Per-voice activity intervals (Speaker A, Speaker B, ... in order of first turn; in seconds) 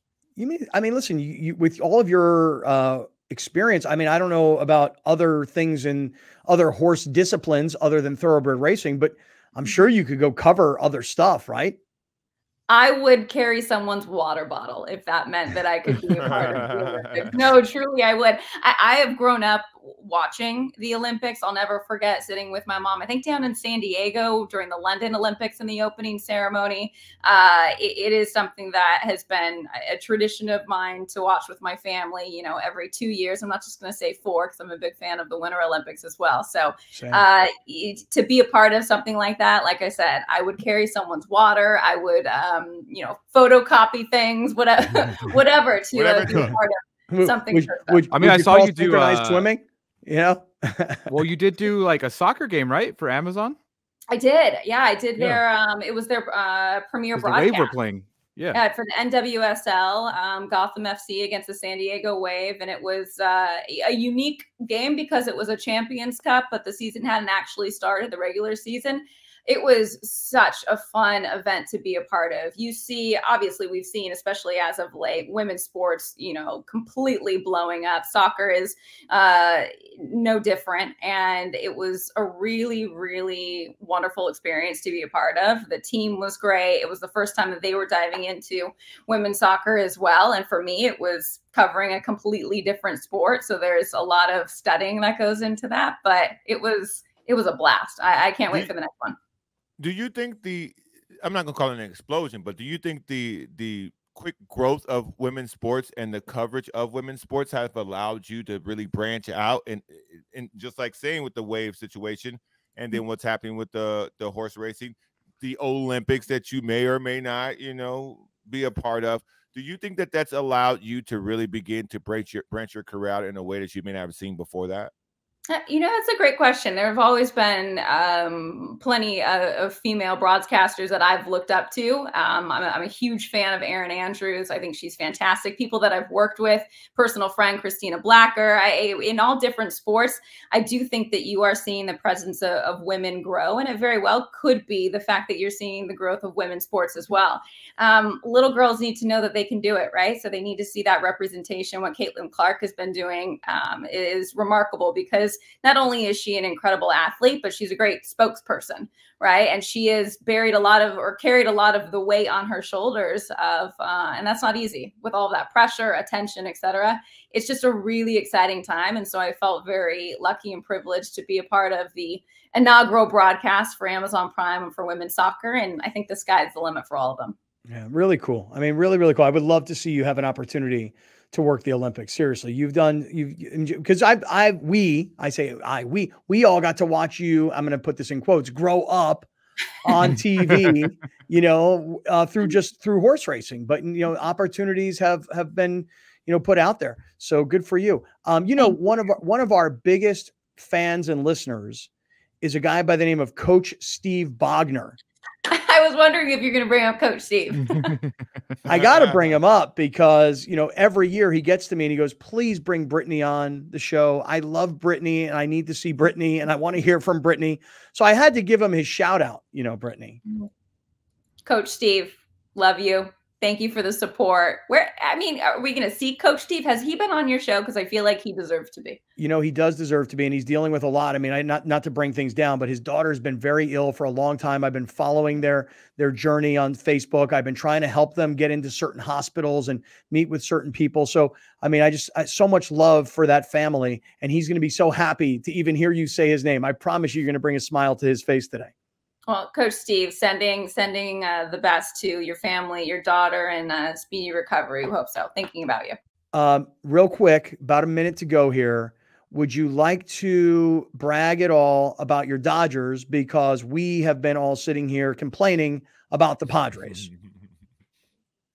Speaker A: 0.4-11.8, 36.9-37.2, 47.1-51.1, 177.7-189.3, 189.8-201.9, 202.4-205.0, 208.7-220.2, 229.2-248.7, 256.3-267.1
Speaker B: 12.7-48.1, 54.1-57.7, 58.5-99.2, 125.5-177.3, 205.5-207.9, 221.4-229.0, 249.3-256.0
Speaker C: 16.2-17.4, 45.9-46.6, 99.8-124.9, 208.6-209.4, 266.8-267.5
Speaker D: 48.1-49.5, 51.1-53.6, 57.2-58.6, 190.0-190.8, 207.7-208.1